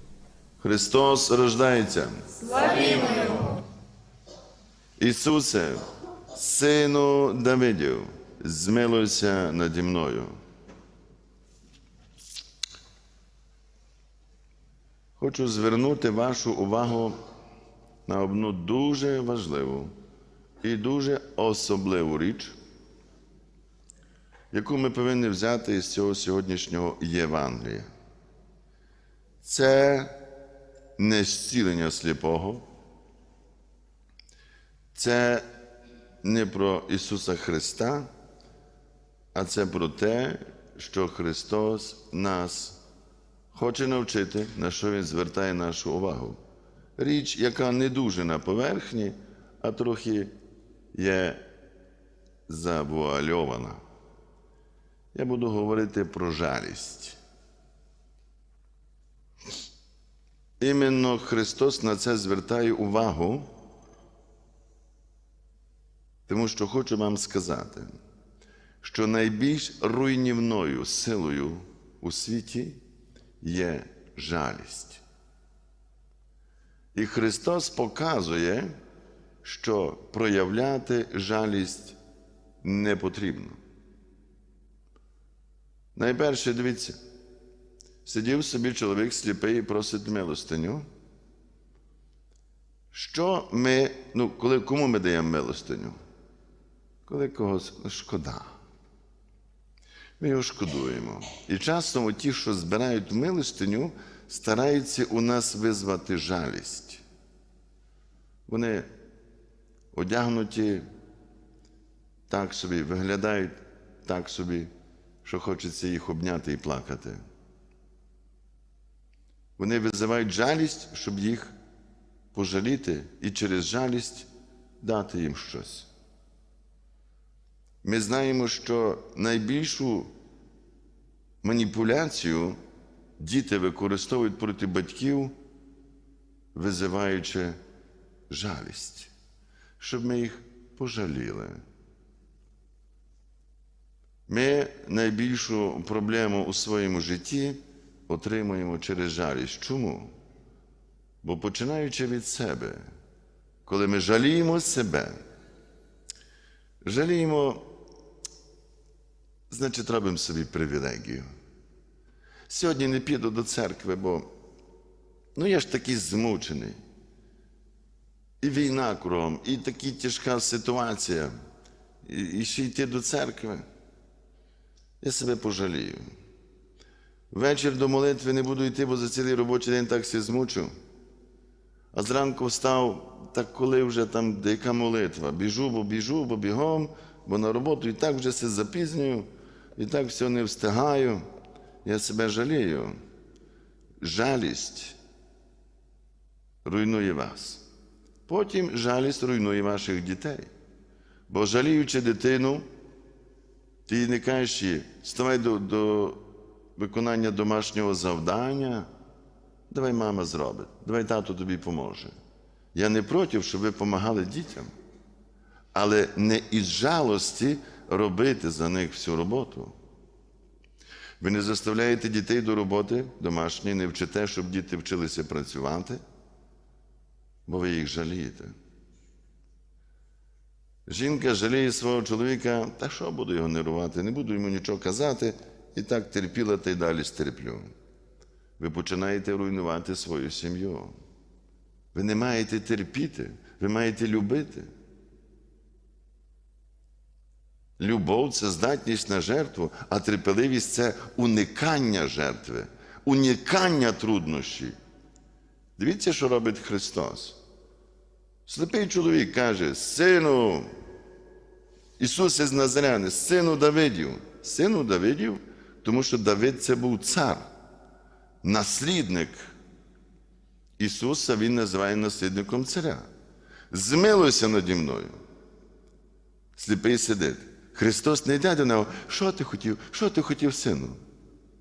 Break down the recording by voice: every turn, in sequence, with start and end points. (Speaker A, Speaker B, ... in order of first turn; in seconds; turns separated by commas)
Speaker A: 0.6-3.2, Speaker A: 5.0-5.8, Speaker A: 6.3-10.3, Speaker A: 15.2-17.2, Speaker A: 18.1-19.9, Speaker A: 20.6-22.5, Speaker A: 24.5-27.9, Speaker A: 29.4-30.1, Speaker A: 31.0-32.6, Speaker A: 34.9-35.5, Speaker A: 36.2-38.1, Speaker A: 39.3-42.8, Speaker A: 43.5-46.4, Speaker A: 47.0-50.3, Speaker A: 50.9-51.4, Speaker A: 52.5-53.8, Speaker A: 55.1-57.2, Speaker A: 60.6-63.5, Speaker A: 66.3-67.9, Speaker A: 68.8-72.8, Speaker A: 73.4-75.0, Speaker A: 76.9-78.7, Speaker A: 79.4-82.0, Speaker A: 82.6-83.6, Speaker A: 85.9-87.0, Speaker A: 88.0-90.8, Speaker A: 92.9-96.0, Speaker A: 97.0-98.5, Speaker A: 100.2-107.0, Speaker A: 108.5-108.9, Speaker A: 109.9-110.8, Speaker A: 112.3-114.7, Speaker A: 115.2-117.2, Speaker A: 119.6-121.5, Speaker A: 122.3-124.3, Speaker A: 124.8-125.9, Speaker A: 127.8-130.1, Speaker A: 131.4-132.6, Speaker A: 133.2-135.3, Speaker A: 136.5-137.6, Speaker A: 138.3-139.1, Speaker A: 139.8-141.6, Speaker A: 144.3-150.1, Speaker A: 151.2-152.8, Speaker A: 153.7-155.1, Speaker A: 156.8-157.6, Speaker A: 159.5-161.3, Speaker A: 162.5-164.3, Speaker A: 165.3-166.8, Speaker A: 168.4-171.3, Speaker A: 172.0-173.6, Speaker A: 175.0-176.0, Speaker A: 177.3-180.7, Speaker A: 181.9-191.3, Speaker A: 191.8-192.9, Speaker A: 194.0-195.0, Speaker A: 196.6-197.6, Speaker A: 198.3-200.5, Speaker A: 201.3-202.7, Speaker A: 203.9-206.2, Speaker A: 206.8-208.9, Speaker A: 209.7-212.1, Speaker A: 212.7-214.7, Speaker A: 215.7-219.7, Speaker A: 221.2-226.0, Speaker A: 227.5-228.5, Speaker A: 230.9-237.7, Speaker A: 238.6-240.9, Speaker A: 241.9-244.7, Speaker A: 247.8-254.7, Speaker A: 255.8-257.4, Speaker A: 258.4-260.7, Speaker A: 262.0-267.4, Speaker A: 268.4-269.5, Speaker A: 270.8-273.1, Speaker A: 273.7-275.2, Speaker A: 276.6-281.0